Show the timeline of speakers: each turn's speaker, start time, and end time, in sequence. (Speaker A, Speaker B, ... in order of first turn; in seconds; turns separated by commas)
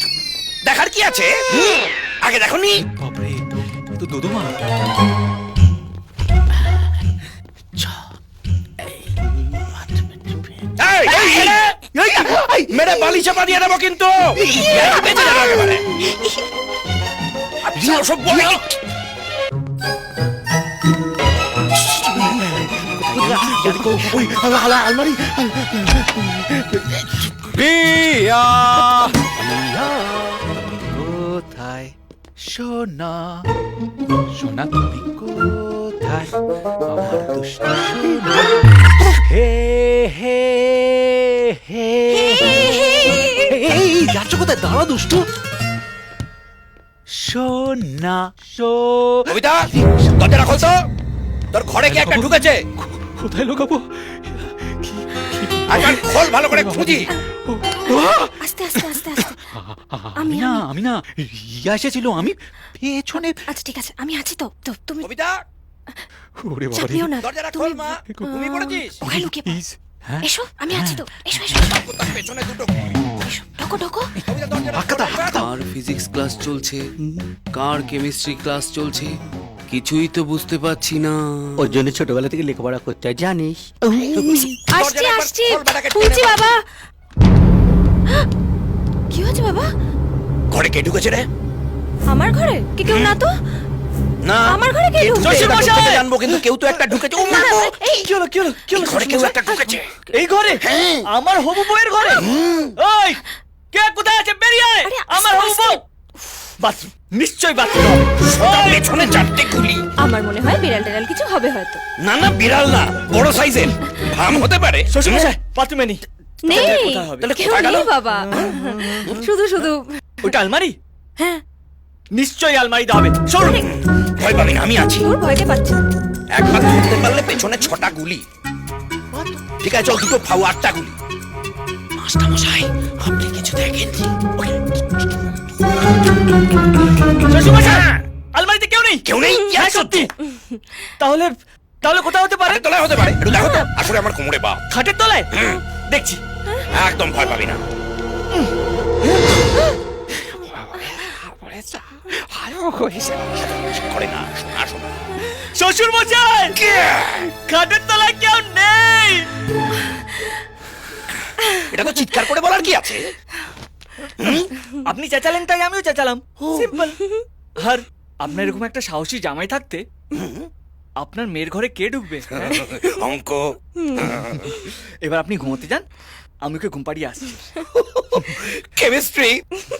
Speaker A: 0.6-2.8, Speaker B: 2.8-3.4, Speaker B: 3.9-4.5, Speaker B: 8.8-10.5, Speaker A: 10.8-15.8, Speaker B: 11.1-13.0, Speaker B: 14.4-15.4, Speaker A: 17.6-18.7, Speaker B: 17.8-18.6, Speaker B: 22.1-26.1, Speaker A: 22.1-22.4, Speaker A: 23.6-24.3, Speaker B: 26.8-33.4, Speaker B: 34.3-45.3, Speaker C: 42.2-43.5, Speaker B: 47.1-50.1, Speaker A: 49.3-50.8, Speaker A: 51.5-52.6, Speaker B: 51.8-63.4, Speaker A: 55.7-57.1, Speaker C: 58.4-59.4, Speaker C: 60.2-60.6, Speaker C: 63.5-65.1, Speaker A: 65.0-65.4, Speaker B: 66.4-67.1, Speaker C: 66.7-69.6, Speaker A: 67.2-68.0, Speaker D: 68.3-69.0, Speaker B: 69.0-71.7, Speaker C: 70.2-71.7, Speaker A: 71.6-72.8, Speaker C: 73.2-74.1, Speaker A: 74.2-75.5, Speaker B: 74.7-75.5, Speaker E: 75.3-76.8, Speaker E: 77.5-79.1, Speaker E: 79.7-81.7, Speaker F: 81.6-84.5, Speaker A: 84.0-86.5, Speaker C: 84.7-86.6, Speaker C: 89.1-89.7, Speaker A: 90.5-91.3, Speaker C: 92.1-93.3, Speaker A: 92.8-93.2, Speaker A: 94.2-97.8, Speaker C: 94.4-95.7, Speaker D: 95.2-96.4, Speaker C: 97.3-97.7, Speaker D: 97.3-99.3, Speaker A: 98.7-99.8, Speaker C: 99.1-99.8, Speaker D: 100.1-102.3, Speaker A: 100.6-101.0, Speaker A: 102.2-102.7, Speaker D: 102.8-105.8, Speaker C: 104.8-105.8, Speaker D: 106.6-109.3, Speaker A: 108.2-109.8, Speaker C: 110.0-111.8, Speaker A: 112.0-115.3, Speaker D: 114.9-117.5, Speaker C: 116.4-119.9, Speaker A: 116.5-118.0, Speaker D: 118.1-119.1, Speaker D: 120.2-120.7, Speaker D: 122.1-123.7, Speaker C: 123.4-123.7, Speaker A: 124.2-125.1, Speaker C: 125.0-125.8, Speaker A: 126.3-128.2, Speaker A: 129.6-130.9, Speaker A: 131.9-134.1, Speaker D: 137.2-139.0, Speaker A: 139.0-140.1, Speaker D: 139.6-140.1, Speaker D: 141.0-142.9, Speaker A: 142.4-144.6, Speaker C: 143.4-143.7, Speaker D: 144.7-146.2, Speaker A: 145.3-145.6, Speaker A: 146.7-147.6, Speaker B: 150.7-153.1, Speaker A: 153.0-154.9, Speaker D: 155.3-156.6, Speaker A: 156.6-157.3, Speaker D: 157.2-159.3, Speaker A: 161.6-163.1, Speaker A: 164.2-164.5, Speaker D: 164.8-167.0, Speaker D: 167.6-169.8, Speaker A: 170.1-170.4, Speaker D: 171.0-172.6, Speaker A: 172.7-173.4, Speaker C: 173.8-174.1, Speaker A: 174.0-174.5, Speaker D: 174.6-175.8, Speaker D: 176.4-177.7, Speaker E: 178.9-179.3